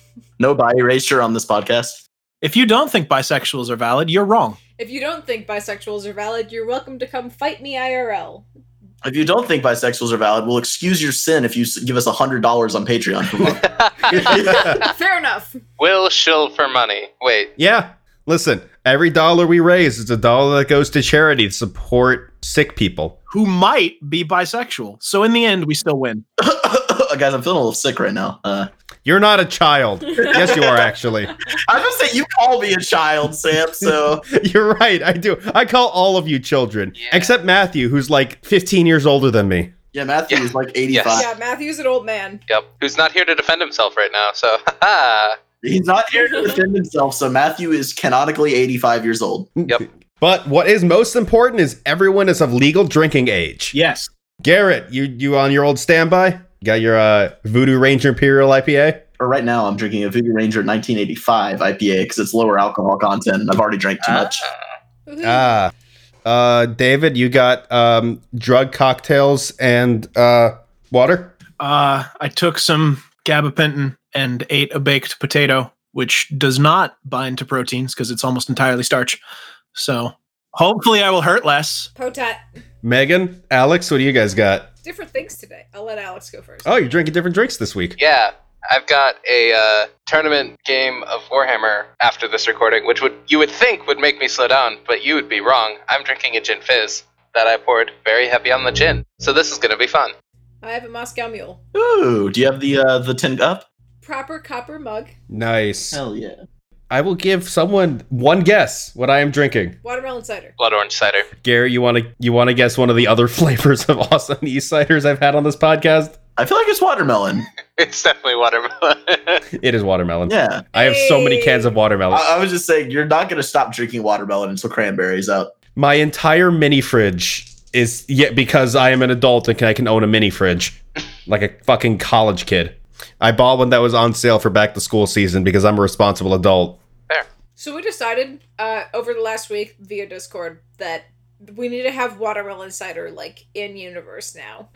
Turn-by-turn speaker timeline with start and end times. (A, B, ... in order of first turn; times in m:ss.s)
0:00.4-0:02.0 A
0:02.4-0:04.6 B
0:04.8-0:08.4 C
0:09.0-0:14.8 A
0:13.7-0:14.8 D
0:14.3-0:15.6 C
0:14.5-0:14.8 E
0:15.8-0:17.5 D
0:17.6-0:23.2 E
0:23.3-0:26.2 B
0:26.4-0:28.7 A
0:29.0-0:31.4 E
0:30.2-0:30.9 A
0:31.6-0:34.2 A
0:33.8-0:39.7 E
0:37.0-0:37.3 D
0:39.9-0:41.3 A
0:40.3-0:41.3 D
0:41.1-0:42.4 C
0:42.5-0:45.4 D
0:45.6-0:49.5 A
0:49.6-0:53.8 E
0:53.7-0:54.1 B
0:54.4-0:59.0 E
0:59.2-1:04.5 A
1:05.1-1:05.6 C
1:05.2-1:05.7 E
1:06.2-1:11.4 E
1:11.6-1:19.2 B
1:19.7-1:21.9 B
1:22.0-1:22.4 C
1:22.8-1:24.7 E
1:24.8-1:26.7 C
1:26.6-1:28.0 E
1:28.0-1:40.1 D
1:40.6-1:41.6 C
1:41.7-1:43.6 A
1:44.0-1:45.1 C
1:45.3-1:46.0 E
1:45.9-1:46.4 A
1:46.9-1:49.8 E
1:49.8-1:50.6 C
1:50.6-1:51.3 D
1:51.4-1:56.2 E
1:56.4-1:57.5 A
1:57.8-1:59.4 D
1:59.5-2:02.4 E
2:00.3-2:00.6 A
2:00.7-2:01.7 C
2:02.1-2:05.5 A
2:05.8-2:16.8 E
2:17.6-2:24.7 C